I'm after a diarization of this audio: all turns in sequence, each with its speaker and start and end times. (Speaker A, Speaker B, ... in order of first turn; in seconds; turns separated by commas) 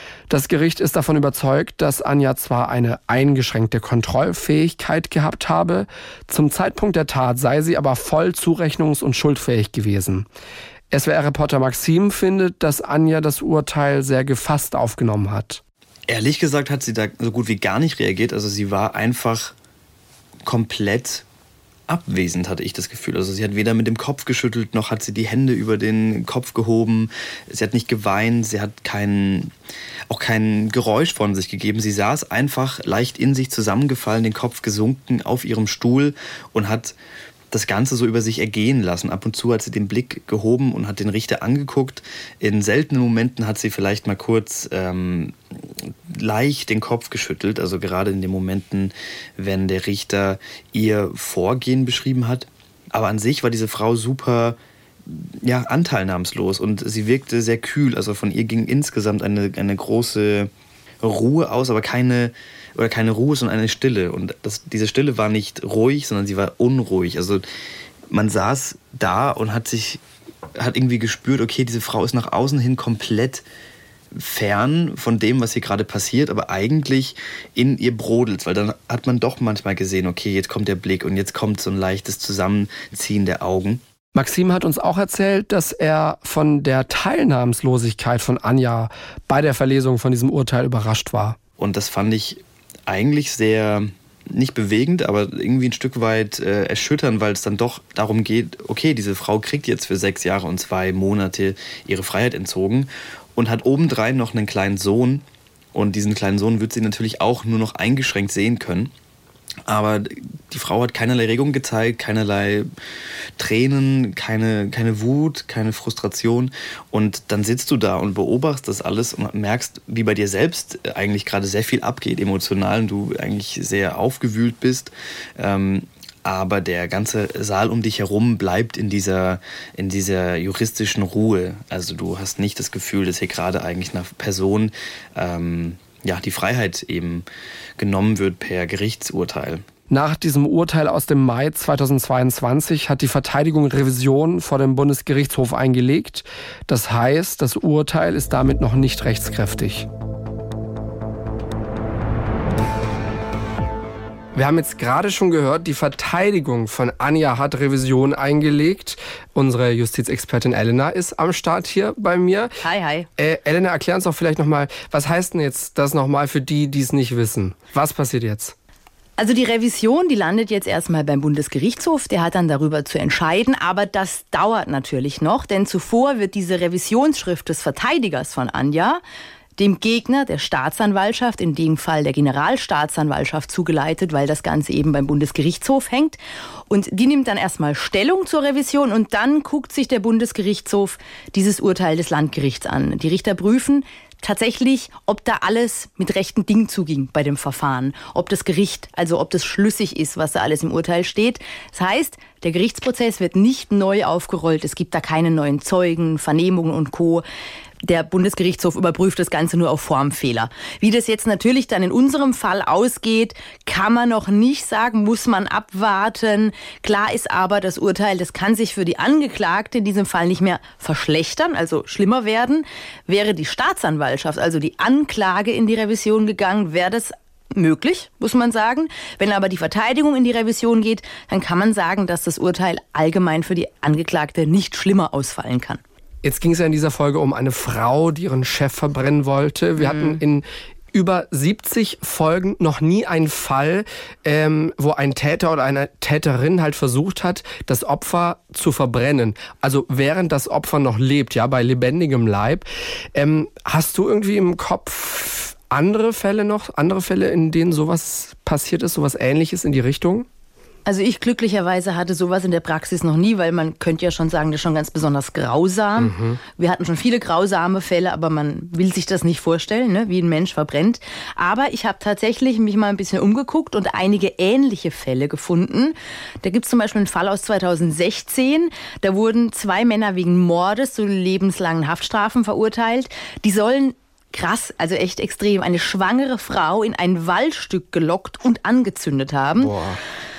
Speaker A: 0.3-10.2, Speaker A: 10.9-15.6, Speaker B: 16.1-19.5, Speaker B: 20.4-21.2, Speaker B: 21.9-29.5, Speaker B: 30.1-37.0, Speaker B: 37.5-60.5, Speaker B: 61.0-67.4, Speaker B: 68.1-70.0, Speaker B: 70.6-73.4, Speaker B: 74.1-83.8, Speaker A: 84.1-91.4, Speaker B: 91.6-108.9, Speaker B: 109.7-112.7, Speaker B: 113.4-137.2, Speaker B: 137.8-139.7, Speaker A: 139.9-149.9, Speaker A: 154.3-162.6, Speaker C: 162.6-163.1, Speaker A: 163.2-168.5, Speaker C: 169.2-179.0, Speaker C: 179.6-186.2, Speaker C: 186.7-207.2, Speaker C: 207.8-235.8, Speaker A: 236.2-260.3, Speaker C: 239.9-240.2, Speaker C: 260.9-289.7, Speaker A: 266.0-266.4, Speaker A: 289.6-290.0